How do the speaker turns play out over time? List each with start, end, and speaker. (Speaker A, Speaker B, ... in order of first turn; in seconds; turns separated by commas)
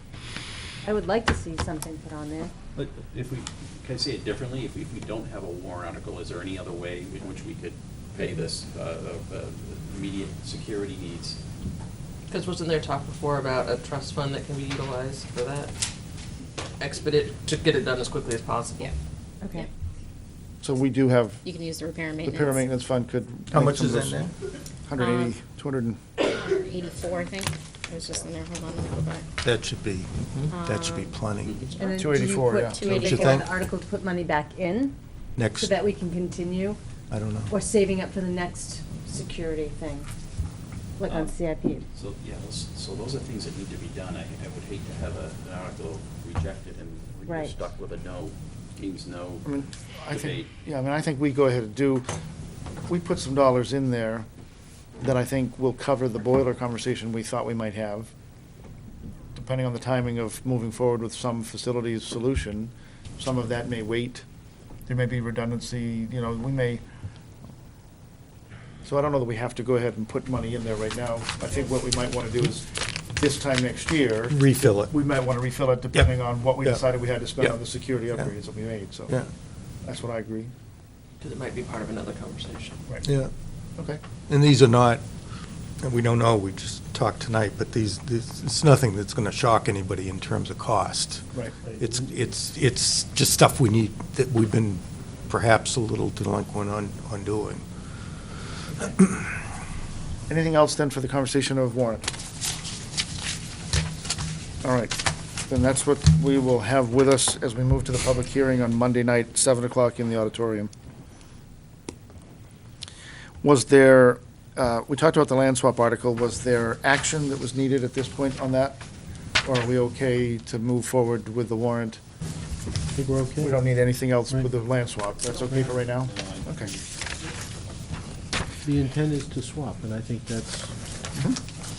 Speaker A: 0.8-2.5, Speaker B: 2.7-11.4, Speaker C: 12.3-15.7, Speaker C: 16.8-18.9, Speaker A: 19.4-19.7, Speaker D: 20.6-21.4, Speaker E: 21.4-22.6, Speaker D: 22.2-24.3, Speaker F: 23.5-24.3, Speaker D: 24.9-26.0, Speaker E: 25.0-25.3, Speaker E: 26.3-29.2, Speaker F: 29.4-31.6, Speaker E: 30.5-31.1, Speaker B: 31.4-31.7, Speaker A: 31.8-35.0, Speaker D: 31.9-32.9, Speaker E: 32.8-33.4, Speaker F: 32.8-33.5, Speaker F: 35.4-35.7, Speaker A: 35.6-36.8, Speaker F: 37.1-37.5, Speaker A: 37.5-40.1, Speaker A: 41.0-41.8, Speaker B: 41.1-41.4, Speaker B: 41.9-49.5, Speaker A: 47.2-47.6, Speaker D: 49.4-52.0, Speaker B: 50.1-50.5, Speaker D: 52.9-54.3, Speaker D: 55.0-58.1, Speaker D: 59.3-64.2, Speaker D: 64.9-66.8, Speaker D: 68.8-74.4, Speaker F: 74.3-74.9, Speaker D: 74.9-79.2, Speaker D: 79.8-80.5, Speaker C: 81.2-82.8, Speaker F: 83.0-83.3, Speaker F: 84.3-85.0, Speaker F: 85.8-97.6, Speaker F: 98.8-99.2, Speaker D: 100.3-102.1, Speaker D: 104.6-105.0, Speaker D: 105.5-110.7, Speaker D: 113.4-118.8, Speaker D: 119.4-122.0, Speaker G: 122.9-123.6, Speaker D: 123.4-126.7, Speaker B: 125.6-126.7, Speaker G: 128.6-130.7